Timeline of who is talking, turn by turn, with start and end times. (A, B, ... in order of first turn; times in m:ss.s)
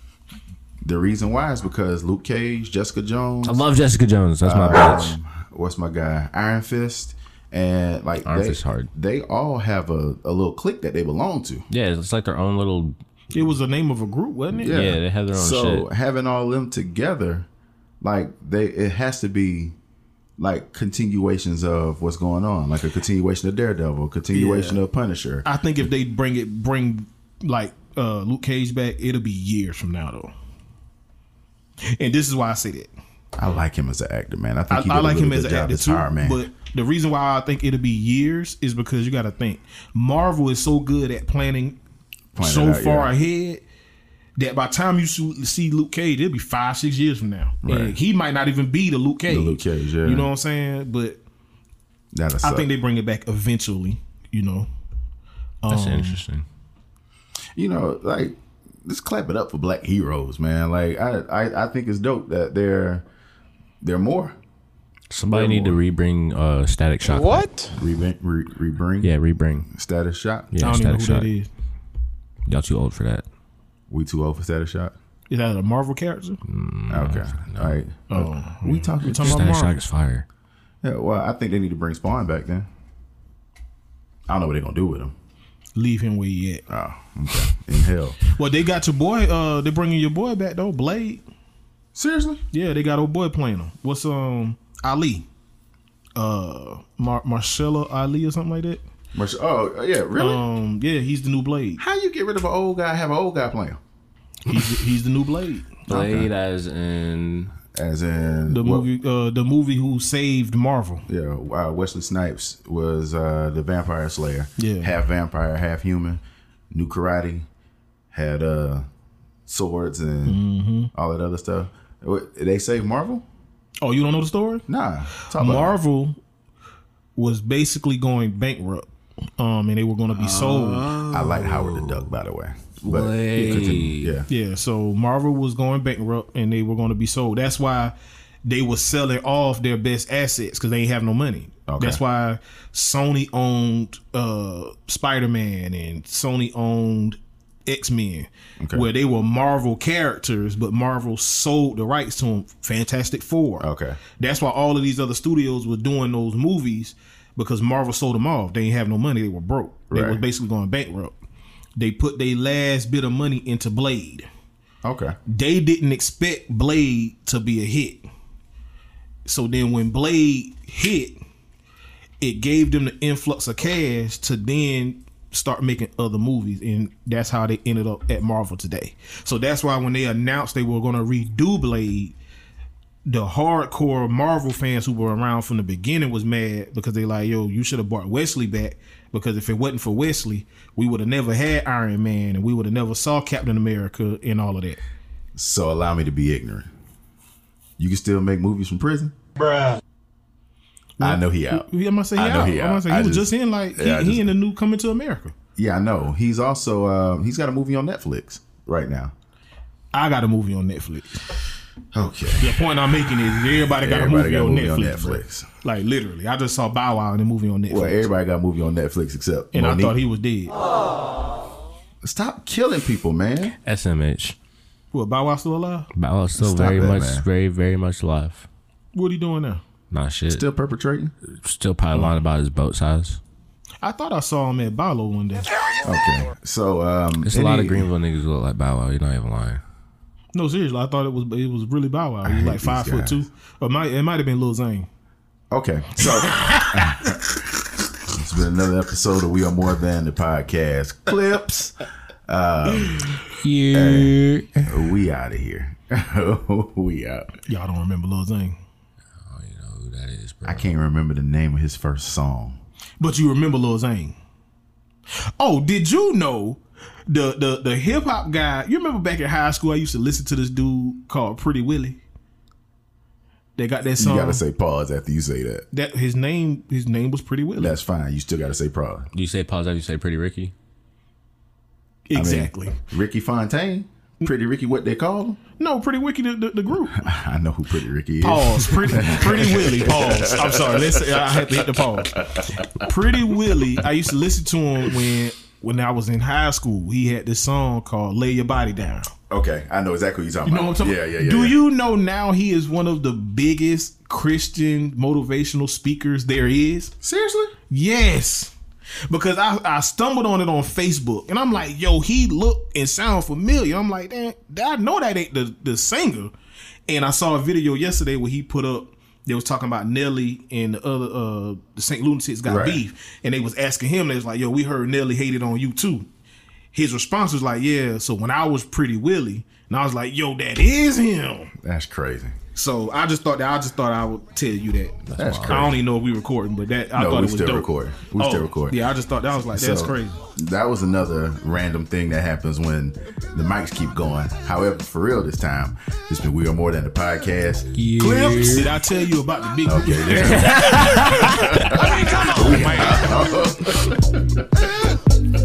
0:00.8-0:03.6 A
0:03.4-0:05.2 B
0:04.4-0:11.7 A
0:08.2-0:08.9 B
0:11.7-0:13.0 B
0:13.3-0:14.7 C
0:14.5-0:17.4 A
0:14.7-0:15.9 B
0:18.0-0:19.8 A
0:20.4-0:25.4 A
0:24.3-0:24.8 C
0:25.4-0:30.3 C
0:31.9-0:32.9 C
0:33.4-0:36.4 A
0:34.7-0:41.8 C
0:42.3-0:43.1 A
0:42.4-0:43.6 C
0:44.4-0:51.2 C
0:47.6-0:48.0 A
0:49.3-0:50.3 A
0:52.1-0:52.7 A
0:52.4-0:54.7 C
0:55.6-0:56.2 C
0:55.7-0:56.4 B
0:57.6-1:03.0 A
1:03.8-1:04.4 A
1:05.1-1:07.7 B
1:05.3-1:05.8 A
1:07.7-1:09.1 A
1:09.0-1:09.7 B
1:09.7-1:10.6 A
1:10.5-1:11.3 B
1:10.6-1:11.5 C
1:12.5-1:13.2 B
1:13.9-1:14.9 A
1:15.3-1:16.4 C
1:16.4-1:17.8 B
1:16.9-1:19.5 A
1:18.1-1:19.8 C
1:19.0-1:20.2 B
1:20.8-1:22.7 A
1:24.3-1:25.1 A
1:25.7-1:26.6 C
1:26.7-1:28.2 A
1:28.2-1:31.2 C
1:31.9-1:32.4 A
1:32.5-1:35.3 C
1:36.2-1:38.8 C
1:39.1-1:40.4 A
1:40.2-1:41.8 C
1:41.8-1:43.8 A
1:44.4-1:45.8 C
1:45.9-1:46.3 A
1:45.9-1:47.6 B
1:47.7-1:48.9 A
1:48.5-1:51.0 C
1:51.1-1:57.5 A
1:54.6-1:55.0 C
1:58.1-1:58.8 A
1:59.5-2:00.4 A
2:00.2-2:00.9 C
2:00.9-2:03.2 A
2:03.8-2:04.6 C
2:04.7-2:05.8 A
2:05.3-2:06.2 C
2:07.2-2:10.9 C
2:10.1-2:12.1 B
2:11.1-2:14.3 A
2:12.8-2:14.2 B
2:13.4-2:17.9 C
2:18.4-2:33.7 C
2:21.7-2:22.0 A
2:28.6-2:28.9 A
2:33.6-2:34.0 A
2:34.2-2:41.2 C
2:39.9-2:40.2 A
2:41.8-2:44.2 C
2:44.8-2:45.2 A
2:45.2-2:48.0 C
2:49.2-2:51.2 C
2:52.2-3:02.2 C
3:03.1-3:14.8 C
3:15.4-3:16.7 A
3:17.8-3:19.1 A
3:21.0-3:25.3 C
3:21.0-3:24.3 A
3:25.6-3:29.1 A
3:29.9-3:31.2 C
3:31.9-3:32.6 A
3:32.4-3:38.1 C
3:33.5-3:35.5 A
3:37.7-3:40.0 A
3:39.5-3:40.6 C
3:42.0-3:43.6 A
3:43.6-3:44.4 B
3:44.9-3:45.9 C
3:45.9-3:48.5 B
3:46.4-3:47.2 A
3:48.9-3:49.6 C
3:49.9-3:50.4 B
3:50.3-3:51.1 A
3:51.3-3:53.2 B
3:51.9-3:52.2 C
3:53.8-3:55.5 C
3:55.8-3:57.9 A
3:57.2-3:59.6 B
4:00.3-4:04.9 C
4:02.2-4:03.2 A
4:05.5-4:07.4 A
4:06.0-4:06.7 C
4:08.0-4:11.8 A
4:12.3-4:13.2 A
4:12.8-4:13.2 C
4:13.4-4:14.8 B
4:13.7-4:17.3 A
4:17.5-4:18.6 C
4:19.2-4:20.7 B
4:20.4-4:22.6 A
4:23.0-4:24.2 C
4:25.4-4:32.0 C
4:33.6-4:34.4 C
4:34.0-4:35.7 A
4:35.7-4:37.8 C
4:37.6-4:39.1 A
4:39.1-4:40.5 B
4:42.1-4:42.8 C
4:42.1-4:45.4 A
4:45.6-4:47.0 C
4:46.9-4:52.5 A
4:48.2-4:59.1 C
4:53.2-4:53.8 A
4:59.3-5:01.6 A
5:00.4-5:06.9 C
5:07.0-5:07.6 A
5:07.7-5:08.5 C
5:09.1-5:16.3 C
5:16.9-5:26.1 C
5:22.4-5:22.8 A
5:26.7-5:31.5 C
5:31.6-5:32.4 A
5:32.5-5:40.2 C
5:35.0-5:35.7 B
5:35.2-5:35.8 A
5:36.9-5:38.8 A
5:39.5-5:47.8 A
5:47.7-5:48.8 B
5:48.0-5:53.1 C
5:49.6-5:54.5 A
5:50.3-5:51.9 B